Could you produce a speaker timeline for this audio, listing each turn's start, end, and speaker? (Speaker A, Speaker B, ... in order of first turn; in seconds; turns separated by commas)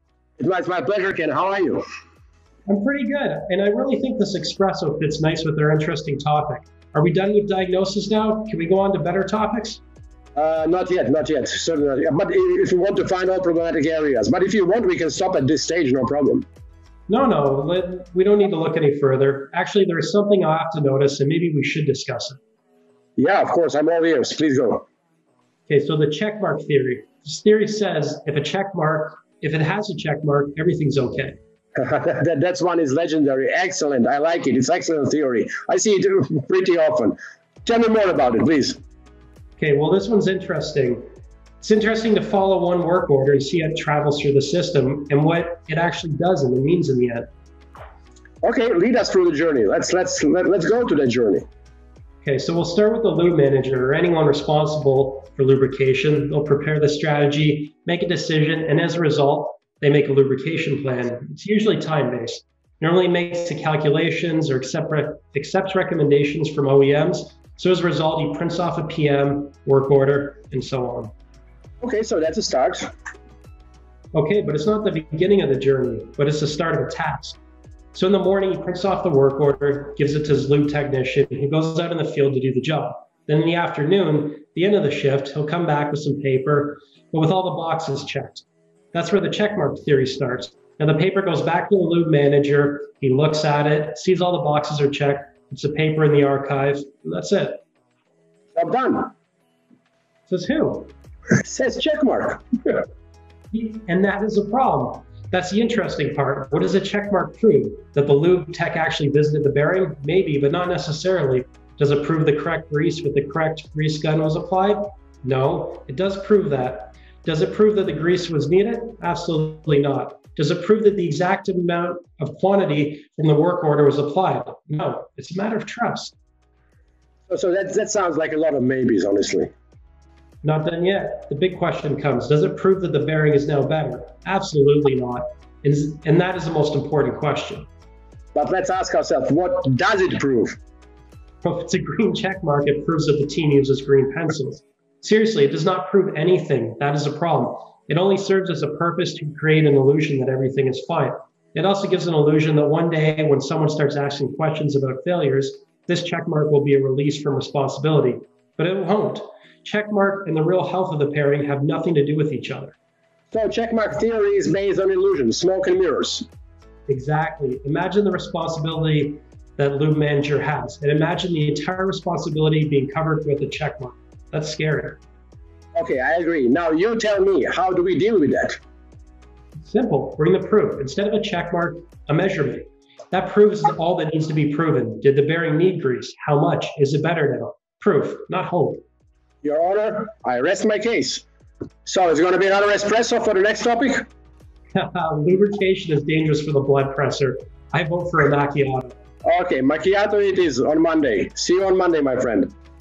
Speaker A: 0.4-1.8, Speaker B: 2.7-9.8, Speaker A: 10.4-16.5, Speaker B: 17.1-22.4, Speaker A: 23.2-24.9, Speaker B: 25.7-31.4, Speaker A: 31.8-38.8, Speaker B: 39.6-41.0, Speaker B: 41.6-47.3, Speaker A: 48.4-51.5, Speaker B: 52.2-71.1, Speaker A: 71.8-72.9, Speaker B: 74.1-77.4, Speaker B: 77.9-97.6, Speaker A: 98.6-99.1, Speaker B: 100.3-100.9, Speaker A: 101.4-102.8, Speaker B: 103.5-126.2, Speaker A: 127.3-129.5, Speaker B: 130.4-137.7, Speaker A: 138.3-140.6, Speaker B: 141.4-162.8, Speaker A: 163.3-166.3, Speaker B: 166.9-175.0, Speaker A: 175.8-178.6, Speaker B: 179.6-188.8, Speaker A: 189.4-191.2, Speaker A: 191.8-194.1, Speaker B: 194.8-198.9, Speaker A: 199.2-202.5